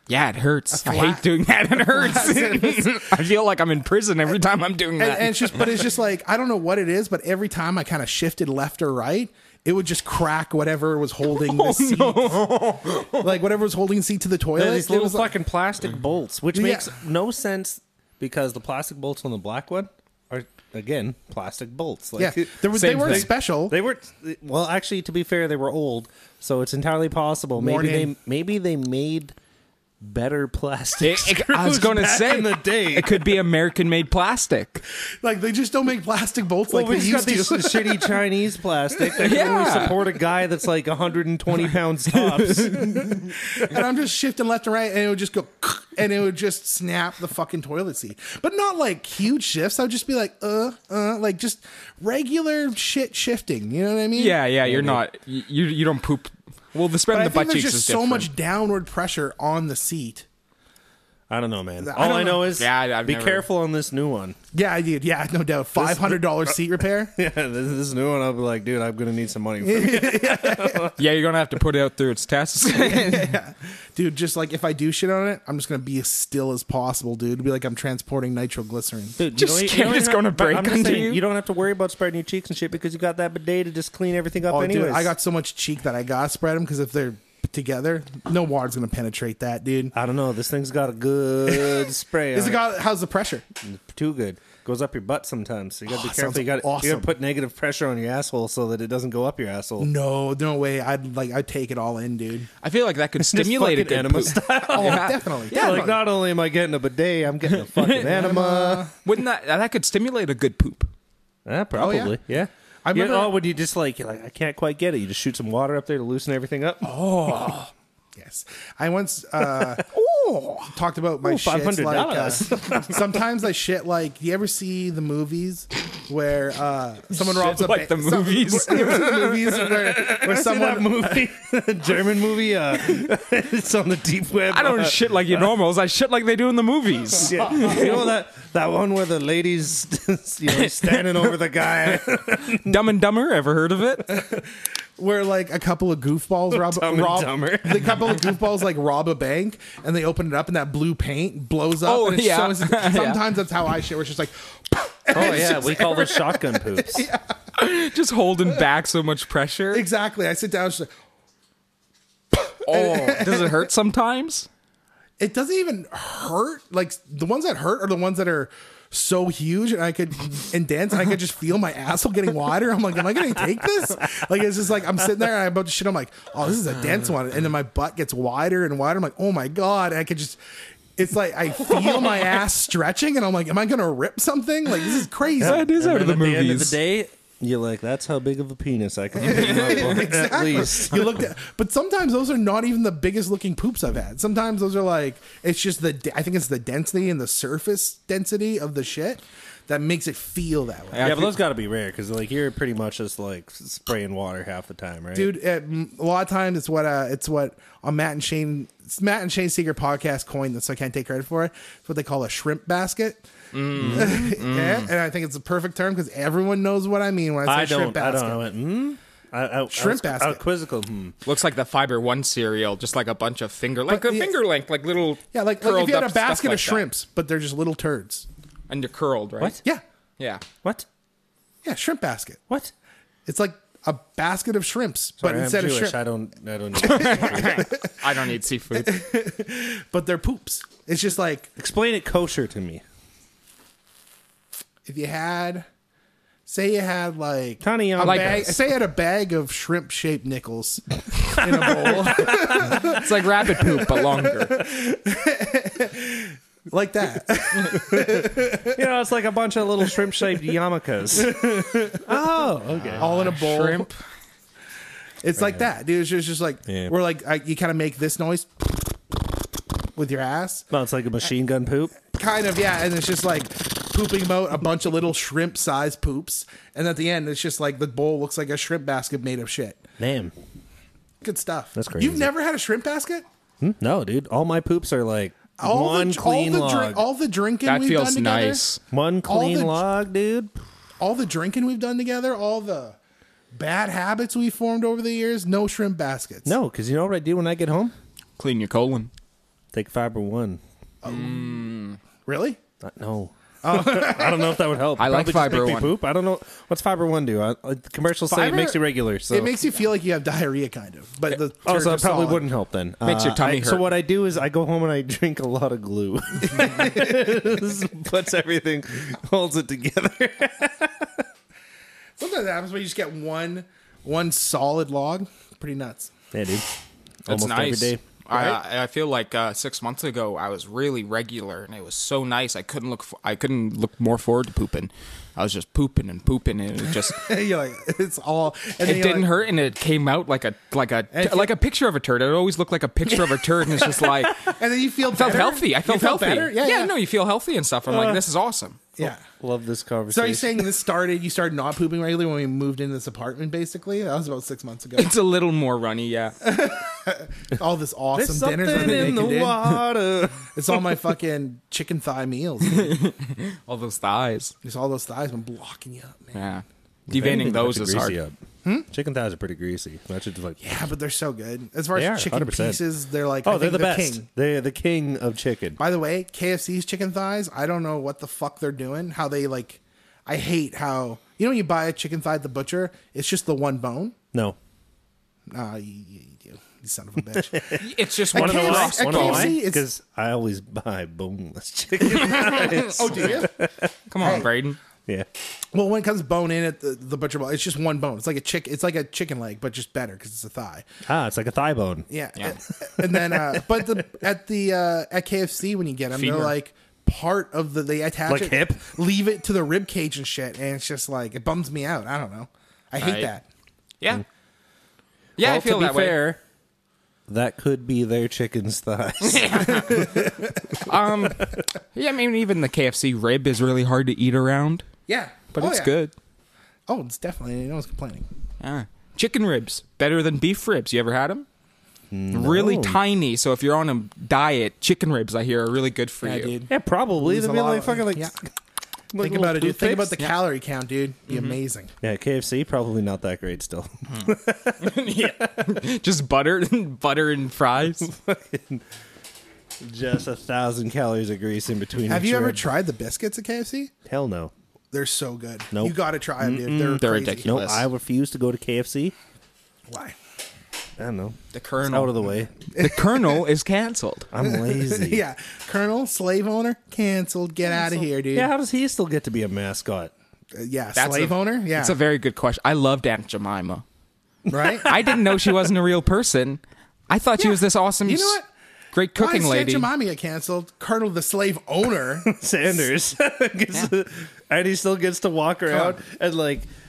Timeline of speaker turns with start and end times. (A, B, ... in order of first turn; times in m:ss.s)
0:00.1-0:05.8 A
0:00.7-0:01.2 B
0:01.8-0:03.1 B
0:05.0-0:15.3 B
0:11.3-0:13.2 A
0:14.6-0:29.4 C
0:16.5-0:16.9 B
0:22.2-0:23.8 B
0:22.7-0:23.3 A
0:27.6-0:28.1 B
0:30.0-0:33.3 C
0:31.0-0:34.8 A
0:35.2-0:38.2 B
0:36.7-0:43.1 C
0:39.0-0:39.5 B
0:39.2-0:40.0 A
0:42.1-0:43.3 A
0:42.8-0:54.4 B
0:54.1-0:58.3 A
0:54.6-0:55.0 C
0:57.1-1:00.2 B
1:01.3-1:04.4 C
1:01.8-1:02.5 B
1:02.6-1:03.5 A
1:04.5-1:07.1 B
1:05.8-1:06.6 C
1:07.1-1:11.0 C
1:09.6-1:10.9 B
1:11.0-1:13.4 A
1:12.7-1:19.2 B
1:19.2-1:25.1 C
1:19.4-1:21.2 A
1:24.5-1:29.9 B
1:29.9-1:32.6 C
1:31.5-1:33.4 B
1:33.6-1:39.9 C
1:35.9-1:37.1 B
1:39.8-1:42.5 B
1:42.6-1:45.9 A
1:43.2-1:48.9 C
1:44.5-1:46.0 B
1:47.5-1:48.2 A
1:48.0-1:48.9 B
1:49.0-1:50.9 A
1:51.5-1:56.9 C
1:51.8-1:52.2 B
1:52.8-1:53.4 B
1:56.8-1:57.7 A
1:58.2-2:00.0 B
1:59.4-1:59.9 C
2:00.3-2:00.5 A
2:00.6-2:11.3 B
2:01.2-2:03.2 C
2:07.1-2:09.3 A
2:08.9-2:15.5 C
2:14.5-2:18.1 A
2:17.2-2:22.8 C
2:20.5-2:21.1 A
2:21.8-2:24.1 A
2:24.1-2:24.5 B
2:25.0-2:37.3 B
2:26.5-2:28.4 C
2:31.8-2:33.2 A
2:35.1-2:37.1 C
2:37.6-2:39.9 A
2:39.7-2:40.9 B
2:42.3-2:43.7 B
2:42.6-2:44.5 A
2:45.2-3:00.4 B
3:01.0-3:05.6 B
3:01.7-3:02.3 A
3:05.4-3:06.8 A
3:05.4-3:11.2 C
3:09.2-3:21.1 B
3:09.3-3:09.9 A
3:20.9-3:21.4 A
3:21.0-3:25.3 C
3:25.1-3:33.2 B
3:33.5-3:34.9 A
3:33.8-3:38.4 B
3:33.8-3:34.2 C
3:37.4-3:41.1 C
3:39.7-3:40.4 B
3:41.2-3:46.8 A
3:43.9-3:44.4 B
3:45.3-3:48.2 B
3:48.7-3:49.6 A
3:51.6-3:52.4 B
3:53.2-3:56.0 B
3:55.2-3:57.8 C
3:56.8-3:59.0 A
3:56.8-3:58.0 B
3:58.7-4:01.5 B
4:01.6-4:02.8 C
4:04.9-4:05.7 B
4:06.5-4:18.9 B
4:07.6-4:08.6 C
4:08.0-4:08.5 A
4:11.4-4:13.0 C
4:12.7-4:14.6 A
4:17.6-4:23.3 C
4:21.2-4:22.2 B
4:23.0-4:23.9 B
4:23.0-4:24.0 A
4:25.2-4:29.2 B
4:25.4-4:25.7 C
4:26.7-4:26.9 C
4:30.0-4:30.7 B
4:30.7-4:32.0 C
4:32.1-4:39.8 B
4:40.0-4:40.3 C
4:41.2-4:43.2 B
4:41.8-4:42.3 C
4:43.6-4:47.1 C
4:45.6-4:48.6 B
4:47.6-4:48.8 A
4:48.9-4:50.5 C
4:49.2-4:49.8 B
4:51.0-4:53.0 B
4:53.5-4:56.5 B
4:56.5-4:57.9 C
4:58.4-4:59.1 A
4:59.7-5:00.6 C
5:01.0-5:01.7 B
5:01.0-5:02.0 A
5:02.2-5:02.6 B
5:02.8-5:09.6 C
5:03.6-5:04.6 B
5:05.0-5:06.0 A
5:08.3-5:12.5 B
5:11.6-5:21.2 C
5:13.0-5:13.8 A
5:16.5-5:17.1 B
5:22.2-5:26.1 B
5:26.3-5:26.7 C
5:27.2-5:28.0 C
5:27.3-5:37.3 A
5:28.3-5:28.6 B
5:37.1-5:39.3 B
5:38.8-5:44.5 A
5:41.1-5:41.5 B
5:43.2-5:43.9 B
5:44.4-5:46.9 B
5:45.1-5:48.8 A
5:47.9-5:48.2 C
5:49.0-5:49.2 B
5:49.0-5:50.7 C
5:50.1-5:55.1 B
5:55.0-5:56.4 A
5:56.4-5:59.8 B
5:58.1-6:00.8 C
5:58.8-5:59.1 A
6:00.5-6:03.0 B
6:02.7-6:04.5 A
6:04.6-6:06.4 B
6:06.3-6:08.2 A
6:07.1-6:08.4 C
6:08.9-6:10.8 C
6:10.6-6:14.2 B
6:12.0-6:12.8 C
6:13.4-6:15.8 C
6:15.8-6:24.2 B
6:25.5-6:29.9 B
6:27.4-6:27.8 C
6:27.8-6:29.6 A
6:28.3-6:34.3 C
6:32.0-6:33.4 A
6:32.3-6:33.6 B
6:34.1-6:34.8 A
6:34.2-6:34.5 B
6:35.7-6:40.9 B
6:41.0-6:42.1 C
6:42.1-6:53.4 B
6:43.0-6:44.0 C
6:46.1-6:46.5 A
6:48.3-6:48.9 C
6:53.0-6:53.3 A
6:55.4-6:56.3 A
6:55.4-6:56.4 C
6:57.3-7:00.6 C
6:59.2-7:00.2 A
6:59.7-7:00.8 B
7:00.8-7:04.9 A
7:05.1-7:06.0 B
7:05.5-7:06.1 A
7:06.9-7:08.2 B
7:08.6-7:11.5 A
7:12.1-7:13.0 C
7:12.3-7:16.5 A
7:16.2-7:18.3 B
7:16.7-7:18.4 C
7:19.1-7:20.3 C
7:19.2-7:21.9 B
7:21.3-7:21.6 A
7:22.0-7:25.7 C
7:24.8-7:28.1 A
7:28.0-7:28.8 C
7:29.8-7:32.7 C
7:32.1-7:33.9 B
7:34.1-7:34.5 C
7:34.9-7:37.5 B
7:35.7-7:39.2 C
7:37.0-7:37.9 A
7:39.9-7:40.2 B
7:41.0-7:42.5 C
7:41.5-7:42.2 A
7:42.8-7:44.3 A
7:42.8-7:43.4 B
7:44.3-7:45.2 C
7:44.4-7:48.5 B
7:48.3-7:50.1 C
7:50.5-7:52.0 B
7:51.0-7:53.8 A
7:54.5-7:55.2 B
7:54.8-7:58.4 A
7:57.4-7:58.4 B
7:58.9-7:59.9 A
7:59.2-8:02.8 B
8:02.2-8:06.7 C
8:05.7-8:06.0 B